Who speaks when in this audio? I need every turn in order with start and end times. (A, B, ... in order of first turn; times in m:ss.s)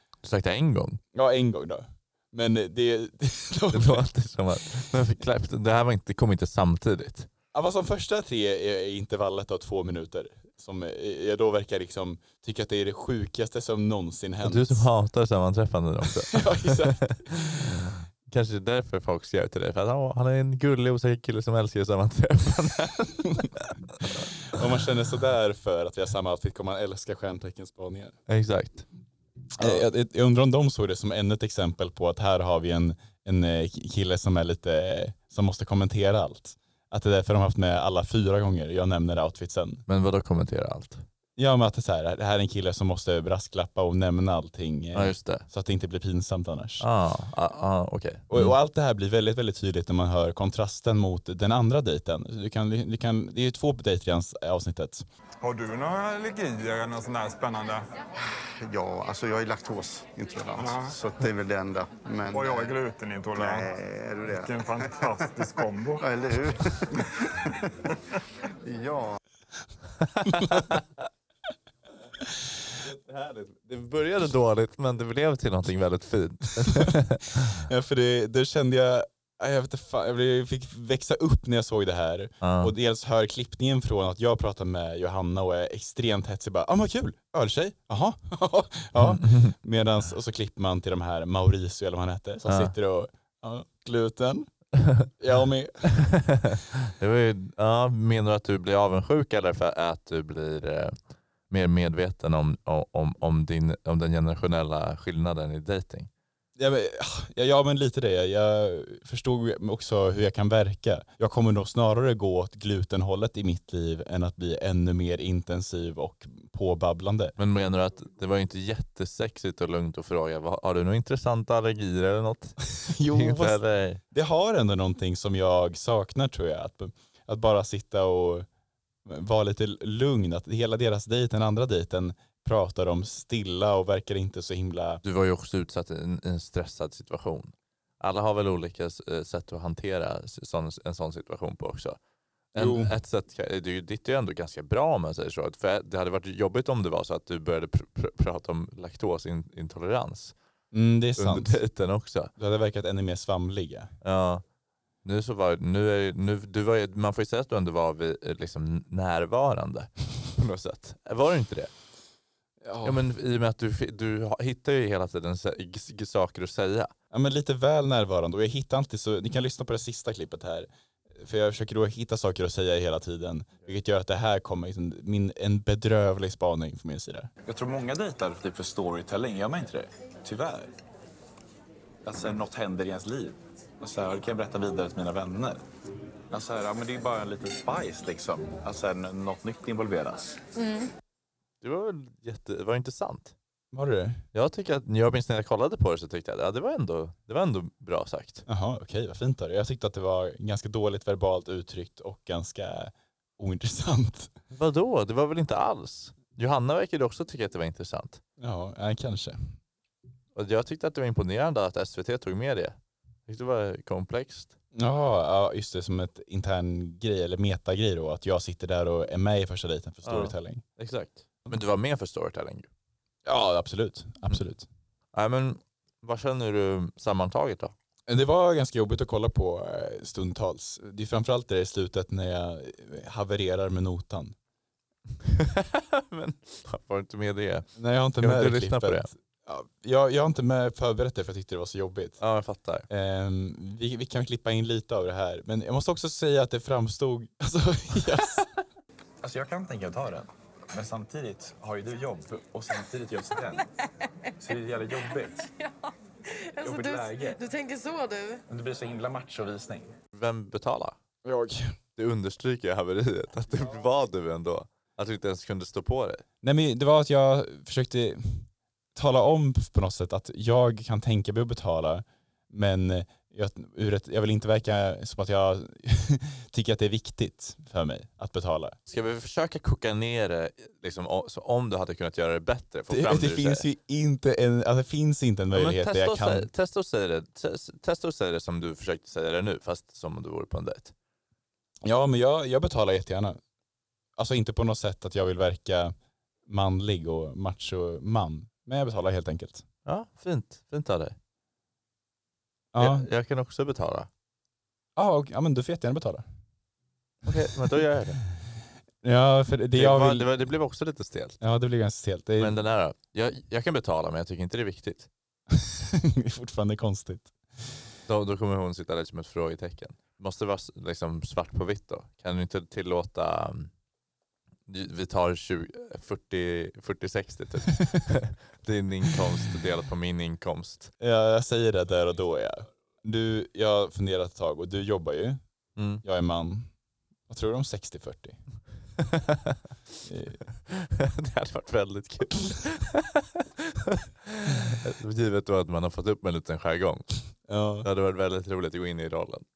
0:00.2-0:01.0 A
0:01.2-0:04.0 B
0:03.7-0:07.3 A
0:07.5-0:14.9 B
0:14.4-0:24.2 A
0:16.3-0:17.4 B
0:24.5-0:28.2 B
0:28.3-0:28.9 A
0:29.6-0:39.8 B
0:39.9-0:41.0 A
0:41.4-0:46.9 B
0:44.9-0:45.5 A
0:46.8-0:48.6 A
0:48.3-0:55.0 B
0:55.4-0:57.8 C
0:58.3-1:02.8 D
1:00.6-1:01.0 C
1:02.3-1:03.7 C
1:03.3-1:05.5 D
1:04.3-1:06.1 C
1:06.0-1:07.7 D
1:08.6-1:09.2 D
1:10.3-1:10.6 B
1:10.4-1:10.8 A
1:12.8-1:17.6 A
1:17.5-1:34.5 B
1:22.4-1:22.7 A
1:29.0-1:29.5 A
1:32.5-1:32.7 A
1:35.2-1:35.8 B
1:36.0-1:41.0 A
1:41.5-1:46.1 A
1:46.6-1:57.4 B
1:57.4-2:04.0 A
2:02.8-2:03.6 B
2:04.1-2:08.5 B
2:09.1-2:15.0 B
2:15.0-2:22.0 A
2:22.5-2:30.4 A
2:22.6-2:22.9 B
2:30.7-2:31.6 B
2:31.2-2:32.3 A
2:32.4-2:33.9 B
2:34.0-2:34.4 A
2:35.0-2:41.7 A
2:42.6-2:43.0 B
2:42.8-2:46.9 A
2:47.1-2:50.7 B
2:51.2-2:57.3 B
2:57.5-3:00.7 E
3:02.1-3:05.6 E
3:06.4-3:10.4 E
3:10.6-3:10.9 F
3:11.6-3:13.4 A
3:13.7-3:14.2 B
3:14.3-3:18.4 A
3:18.5-3:24.3 B
3:24.5-3:28.2 A
3:28.4-3:29.5 B
3:30.4-3:34.5 A
3:34.8-3:40.6 B
3:40.0-3:42.7 A
3:43.2-3:44.7 B
3:45.1-3:47.7 A
3:48.1-3:54.4 B
3:55.2-3:59.1 A
3:57.8-4:02.2 B
4:02.2-4:02.9 A
4:02.9-4:08.5 B
4:09.2-4:13.6 E
4:13.3-4:13.7 F
4:14.4-4:15.4 E
4:14.4-4:18.4 F
4:16.7-4:17.4 E
4:18.5-4:19.9 E
4:20.1-4:21.0 A
4:21.2-4:21.8 B
4:22.0-4:26.2 A
4:26.4-4:38.8 B
4:38.9-4:43.7 A
4:42.9-4:46.5 B
4:45.5-4:50.9 A
4:51.8-4:53.4 B
4:54.2-4:56.0 B
4:56.5-4:59.6 B
4:59.9-5:01.2 A
5:02.7-5:03.1 B
5:02.8-5:04.1 A
5:05.0-5:06.2 B
5:07.2-5:08.2 A
5:09.0-5:10.3 B
5:09.7-5:11.4 A
5:11.4-5:12.6 B
5:12.4-5:15.1 A
5:15.5-5:17.3 B
5:18.1-5:23.7 A
5:24.7-5:30.9 A
5:31.0-5:35.4 B
5:35.8-5:36.0 A
5:36.0-5:36.7 B
5:37.3-5:38.4 B
5:39.0-5:39.6 A
5:40.0-5:40.4 B
5:40.7-5:47.0 A
5:47.5-5:47.9 B
5:47.8-5:49.4 A